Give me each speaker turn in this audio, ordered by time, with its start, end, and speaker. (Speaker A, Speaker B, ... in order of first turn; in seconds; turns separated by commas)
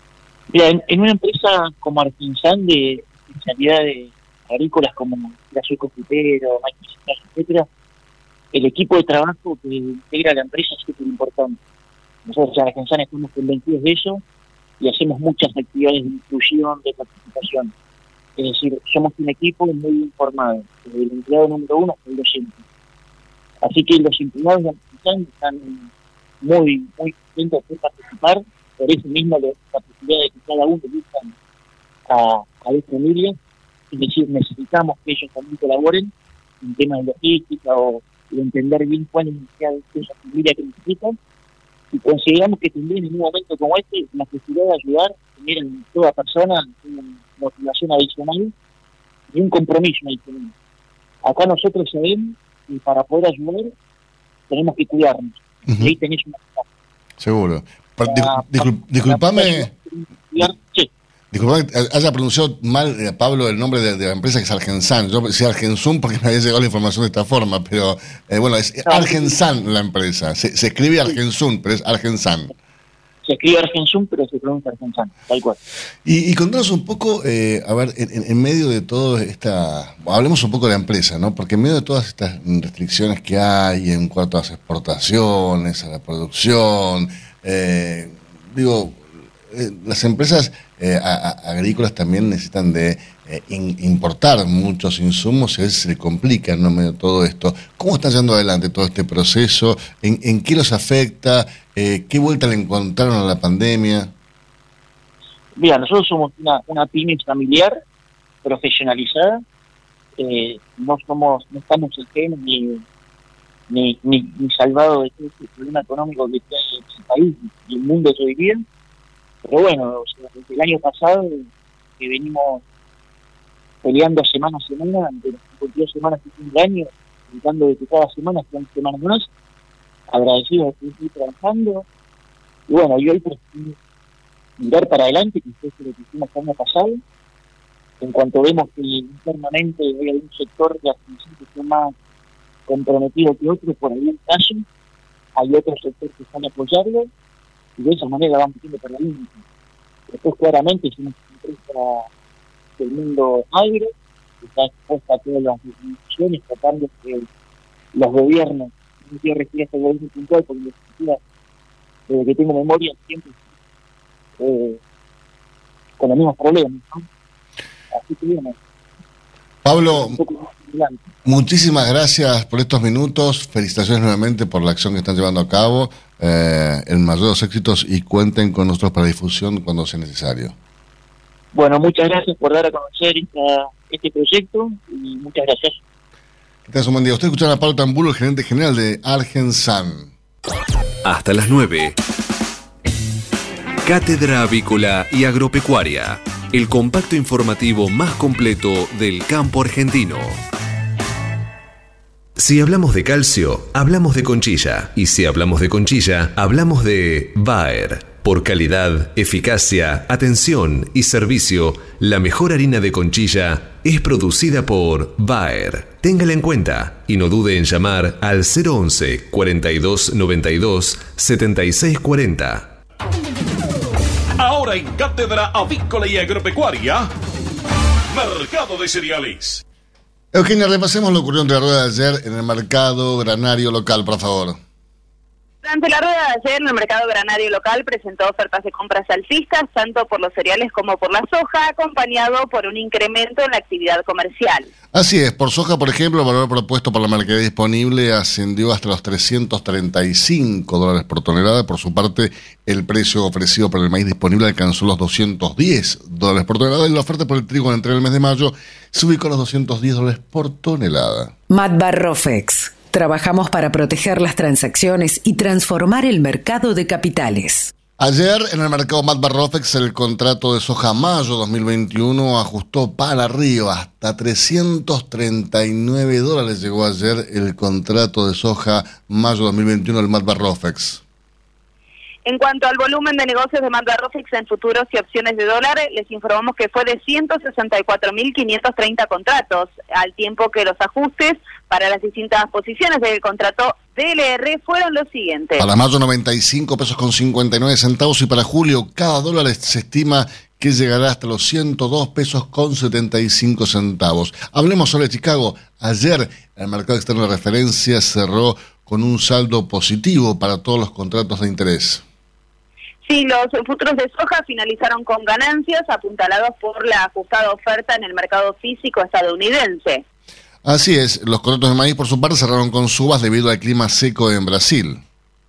Speaker A: 0.5-7.7, Speaker A: 8.5-11.6, Speaker A: 12.2-14.2, Speaker A: 14.8-17.7, Speaker A: 18.4-22.6, Speaker A: 23.6-25.9, Speaker A: 26.4-31.3, Speaker A: 32.1-33.4, Speaker A: 33.9-41.2, Speaker A: 41.9-48.5, Speaker A: 49.3-50.5, Speaker A: 51.2-53.7, Speaker A: 54.5-56.6, Speaker B: 55.7-55.9, Speaker B: 57.2-59.7, Speaker A: 58.0-60.9, Speaker B: 61.3-72.5, Speaker A: 68.8-69.4, Speaker A: 73.2-75.6, Speaker B: 76.0-104.1, Speaker A: 105.5-107.8, Speaker A: 108.4-109.4, Speaker A: 110.2-112.8, Speaker A: 113.7-118.6, Speaker A: 119.4-121.5, Speaker A: 122.0-122.6, Speaker A: 123.8-129.3, Speaker A: 130.1-131.8, Speaker A: 132.7-133.8, Speaker A: 134.6-137.0, Speaker A: 138.0-141.9, Speaker A: 142.7-144.6, Speaker A: 145.3-147.1, Speaker A: 147.8-149.4, Speaker A: 150.1-152.1, Speaker A: 152.8-157.3, Speaker A: 157.9-161.2, Speaker A: 162.1-163.4, Speaker A: 164.4-164.8, Speaker A: 166.0-167.1, Speaker A: 167.9-168.6, Speaker B: 169.6-170.2, Speaker A: 169.9-171.0, Speaker B: 171.2-180.5, Speaker A: 181.5-185.8, Speaker B: 186.7-190.1, Speaker C: 191.0-192.0, Speaker C: 193.8-200.4, Speaker C: 202.4-222.7, Speaker D: 224.4-227.1, Speaker D: 228.1-229.6, Speaker B: 230.3-234.6, Speaker E: 235.6-244.7, Speaker B: 244.9-261.3, Speaker F: 261.5-267.7, Speaker B: 268.0-281.0, Speaker E: 282.2-295.7, Speaker B: 295.6-312.0, Speaker E: 313.0-320.0, Speaker B: 320.6-325.0